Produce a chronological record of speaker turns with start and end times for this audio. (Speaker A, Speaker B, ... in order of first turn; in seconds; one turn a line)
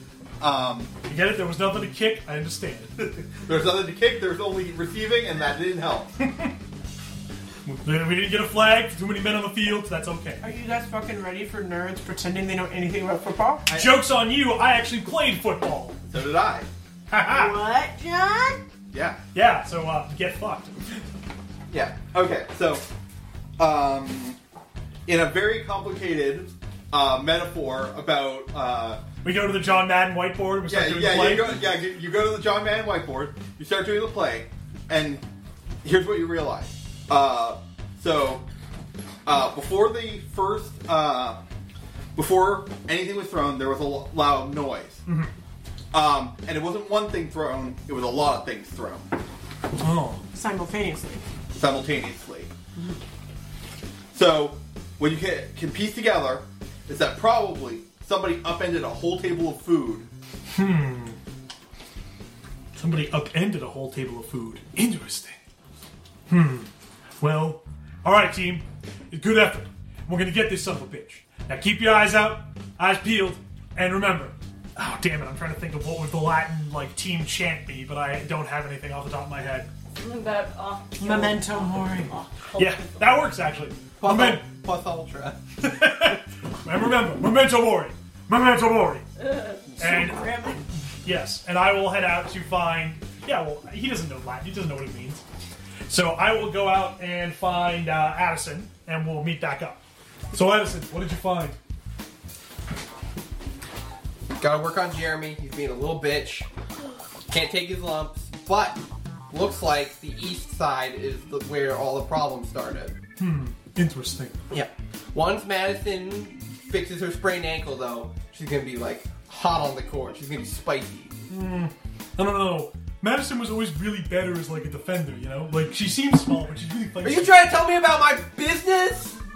Speaker A: 0.4-0.9
Speaker B: 1.1-3.0
Speaker A: 3.0-6.2
Speaker B: 7.7-10.4
Speaker C: 10.4-13.7
Speaker A: 13.7-14.0
Speaker B: 13.7-16.0
Speaker A: 16.1-16.7
Speaker B: 17.1-17.6
Speaker C: 17.3-18.6
Speaker A: 18.9-19.2
Speaker B: 19.3-21.0
Speaker A: 21.7-22.9
Speaker A: 23.6-24.4
Speaker A: 25.1-29.0
Speaker B: 29.2-31.7
Speaker A: 30.6-35.3
Speaker A: 35.8-38.5
Speaker A: 39.2-41.4
Speaker A: 42.2-45.0
Speaker B: 45.1-45.3
Speaker A: 45.9-49.1
Speaker B: 49.8-50.2
Speaker C: 50.3-51.2
Speaker A: 51.5-52.5
Speaker A: 54.1-60.1
Speaker B: 60.5-61.2
Speaker B: 62.8-65.4
Speaker B: 66.3-79.7
Speaker D: 79.9-83.1
Speaker C: 81.0-82.2
Speaker B: 82.5-84.5
Speaker E: 84.0-85.4
Speaker B: 85.6-89.1
Speaker B: 89.8-90.5
Speaker C: 89.8-90.6
Speaker B: 91.0-95.2
Speaker B: 95.9-99.8
Speaker B: 100.3-101.6
Speaker E: 104.4-106.5
Speaker E: 107.3-113.0
Speaker B: 113.2-114.4
Speaker E: 114.5-121.2
Speaker B: 121.3-127.4
Speaker E: 127.0-129.2